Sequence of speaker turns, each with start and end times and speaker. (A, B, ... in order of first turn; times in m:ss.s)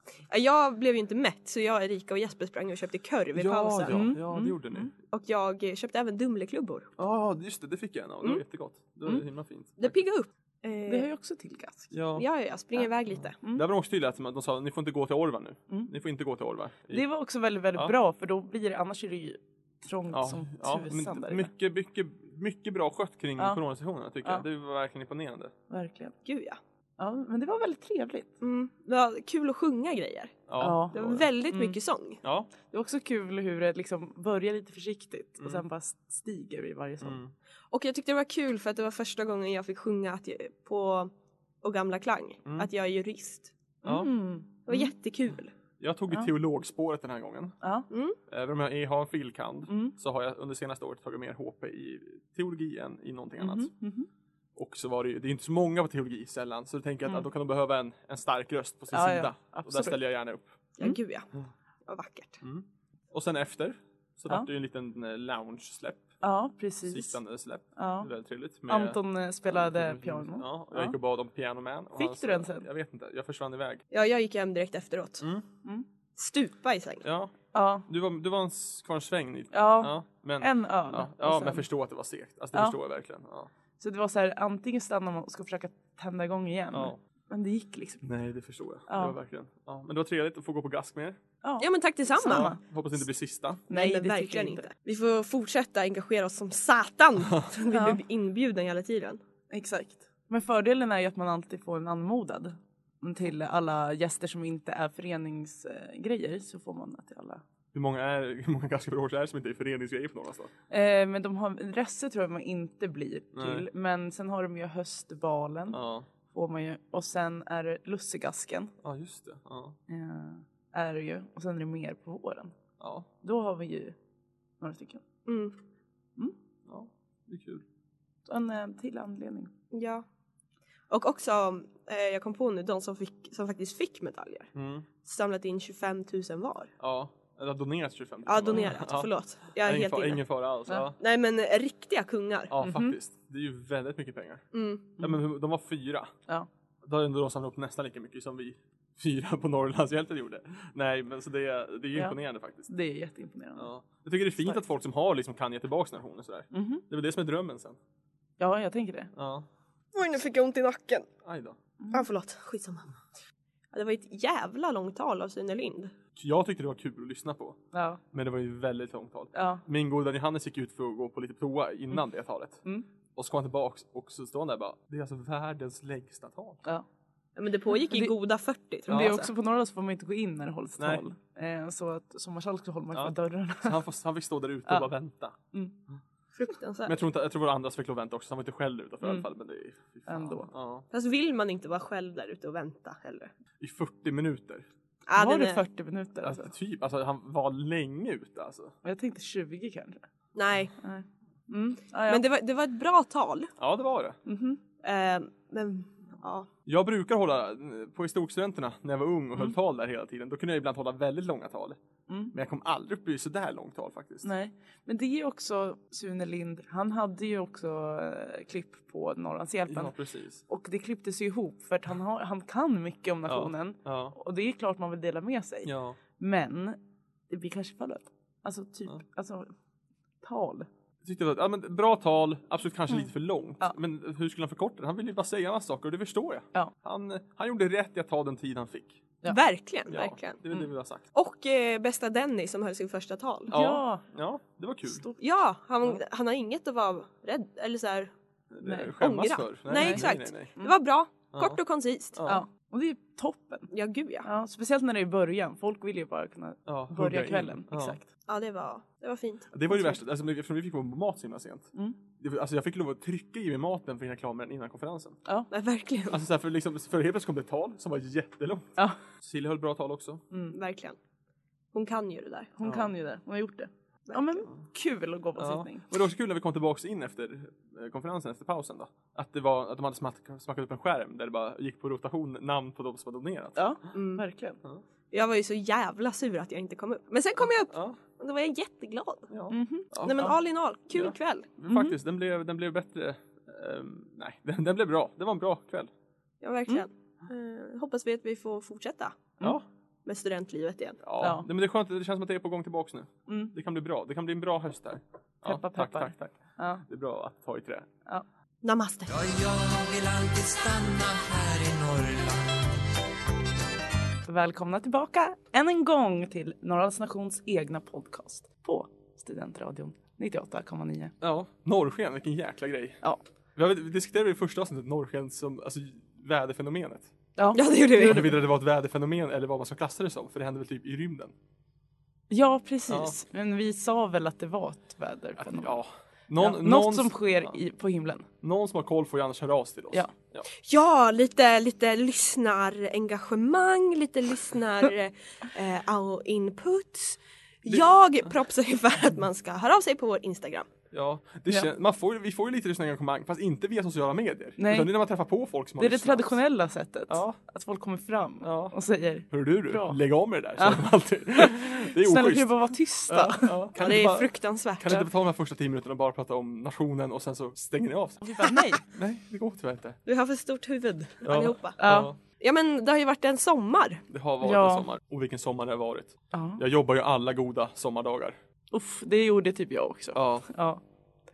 0:00.3-0:04.1 A
0:03.3-0:04.9 B
0:03.9-0:04.9 C
0:05.1-0:06.9 A
0:07.0-0:10.0 B
0:09.8-0:11.1 A
0:10.9-0:11.9 C
0:11.9-0:12.2 B
0:12.1-0:13.4 A
0:13.2-0:17.0 B
0:16.9-0:21.5 C
0:20.1-0:25.5 B
0:25.7-0:26.1 C
0:26.2-0:26.6 A
0:27.0-0:28.3 C
0:28.4-0:32.2 A
0:30.5-0:31.3 B
0:30.6-0:31.0 C
0:31.5-0:31.8 C
0:32.2-0:32.5 B
0:32.7-0:37.2 C
0:35.4-0:35.6 B
0:37.0-0:37.3 B
0:37.7-0:41.1 A
0:41.6-0:43.5 A
0:43.8-0:44.9 C
0:43.8-0:44.1 B
0:44.6-0:45.5 A
0:45.8-0:47.6 B
0:47.9-0:48.2 A
0:48.3-0:53.7 B
0:49.7-0:49.9 C
0:53.4-0:54.1 C
0:54.6-1:00.5 B
0:58.9-1:00.0 C
1:00.8-1:01.3 A
1:01.8-1:02.4 A
1:02.4-1:06.1 B
1:06.2-1:07.2 C
1:06.8-1:13.8 B
1:07.8-1:08.1 C
1:08.7-1:11.0 C
1:11.9-1:12.7 C
1:13.9-1:15.2 A
1:16.2-1:17.0 A
1:17.0-1:17.3 B
1:17.5-1:17.8 C
1:17.9-1:23.5 B
1:19.5-1:21.6 C
1:23.8-1:28.1 C
1:26.7-1:27.0 B
1:28.0-1:31.2 B
1:28.9-1:29.2 C
1:31.4-1:32.6 C
1:31.6-1:32.5 A
1:32.2-1:33.7 B
1:33.7-1:34.7 C
1:33.7-1:39.2 A
1:37.7-1:38.0 C
1:39.5-1:47.4 C
1:47.7-1:50.5 B
1:50.7-1:58.7 C
1:53.3-1:53.7 B
1:55.7-1:56.1 B
1:58.8-1:59.8 B
1:59.9-2:02.5 C
2:02.8-2:03.0 B
2:03.2-2:04.0 C
2:04.6-2:05.0 C
2:05.2-2:05.5 A
2:06.6-2:07.6 B
2:08.2-2:09.5 C
2:09.7-2:10.0 A
2:10.9-2:14.5 A
2:14.5-2:14.9 B
2:15.0-2:16.7 A
2:16.8-2:19.1 B
2:18.2-2:20.2 A
2:19.6-2:21.0 B
2:21.0-2:22.5 A
2:22.5-2:24.4 B
2:22.6-2:23.0 C
2:24.5-2:25.0 A
2:25.0-2:26.1 B
2:26.8-2:32.7 B
2:32.7-2:33.7 C
2:33.6-2:37.8 B
2:36.5-2:36.8 C
2:38.4-2:39.1 C
2:39.1-2:39.5 B
2:39.9-2:41.1 A
2:41.2-2:41.6 B
2:41.9-2:42.9 A
2:43.7-2:45.9 A
2:46.2-2:47.6 B
2:47.7-2:48.0 C
2:48.1-2:56.6 B
2:49.3-2:49.6 C
2:57.4-2:59.3 A
2:57.9-2:58.1 C
2:58.9-2:59.2 B
2:58.9-3:03.8 C
3:00.8-3:01.0 B
3:02.9-3:05.4 B
3:06.4-3:07.0 A
3:06.8-3:10.9 B
3:10.1-3:10.5 C
3:10.9-3:13.3 A
3:13.6-3:14.6 B
3:15.1-3:15.6 A
3:15.2-3:16.5 C
3:16.2-3:18.7 B
3:18.8-3:20.0 C
3:20.3-3:20.7 A
3:20.8-3:22.2 C
3:22.1-3:23.5 A
3:23.6-3:24.2 B
3:24.2-3:24.6 C
3:24.8-3:26.5 A
3:26.6-3:31.8 B
3:32.1-3:32.3 C
3:32.3-3:34.3 B
3:34.2-3:39.9 C
3:39.7-3:40.4 B
3:40.5-3:46.8 C
3:43.2-3:44.2 B
3:45.6-3:46.0 B
3:47.3-3:49.5 C
3:50.2-3:50.7 C
3:51.0-3:59.1 B
3:59.2-4:00.4 A
3:59.9-4:01.0 B
4:01.1-4:03.5 A
4:03.5-4:04.0 C
4:03.5-4:05.0 B
4:04.9-4:05.2 C
4:05.2-4:08.1 A
4:08.5-4:10.5 B
4:08.6-4:08.9 C
4:09.0-4:12.2 A
4:09.7-4:10.7 C
4:11.3-4:11.6 B
4:12.2-4:12.4 B
4:12.2-4:13.7 C
4:13.7-4:14.3 A
4:14.2-4:18.0 C
4:16.6-4:18.0 B
4:18.3-4:19.5 A
4:19.5-4:25.2 B
4:25.5-4:26.2 A
4:26.1-4:30.2 B
4:30.5-4:31.0 A
4:31.7-4:32.5 A
4:32.6-4:35.9 C
4:32.6-4:32.9 B
4:34.1-4:34.4 A
4:35.4-4:43.6 B
4:43.6-4:44.6 C
4:43.9-4:44.2 A
4:45.1-4:49.3 A
4:47.7-4:48.0 B
4:49.3-4:50.3 B
4:49.5-4:49.9 C
4:50.0-4:51.5 A
4:50.9-4:55.9 B
4:51.6-4:52.0 C
4:56.4-4:59.3 A
5:00.0-5:01.0 A
5:01.0-5:06.3 B
5:01.2-5:01.5 C
5:03.3-5:03.5 C
5:05.4-5:06.8 C
5:06.9-5:07.9 B
5:08.6-5:09.1 A
5:09.1-5:12.8 D
5:14.2-5:21.1 C
5:21.2-5:23.0 B
5:23.6-5:27.1 B
5:27.4-5:28.4 C
5:27.5-5:28.3 A
5:28.0-5:31.3 B
5:32.3-5:35.8 C
5:32.9-5:33.1 B
5:35.4-5:37.6 B
5:36.4-5:38.3 C
5:38.4-5:40.5 B
5:40.5-5:50.7 A
5:50.9-5:56.4 B
5:54.6-5:54.9 C
5:55.8-6:00.0 C
5:57.1-5:57.4 B
5:58.4-5:58.7 B
5:59.3-6:10.0 B
6:00.6-6:03.7 C
6:03.8-6:05.0 A
6:08.2-6:08.8 C
6:10.0-6:14.0 A
6:11.2-6:12.2 B
6:11.8-6:12.1 C
6:14.1-6:18.4 B
6:14.4-6:14.9 C
6:16.3-6:16.6 C
6:18.7-6:20.8 C
6:20.1-6:20.5 B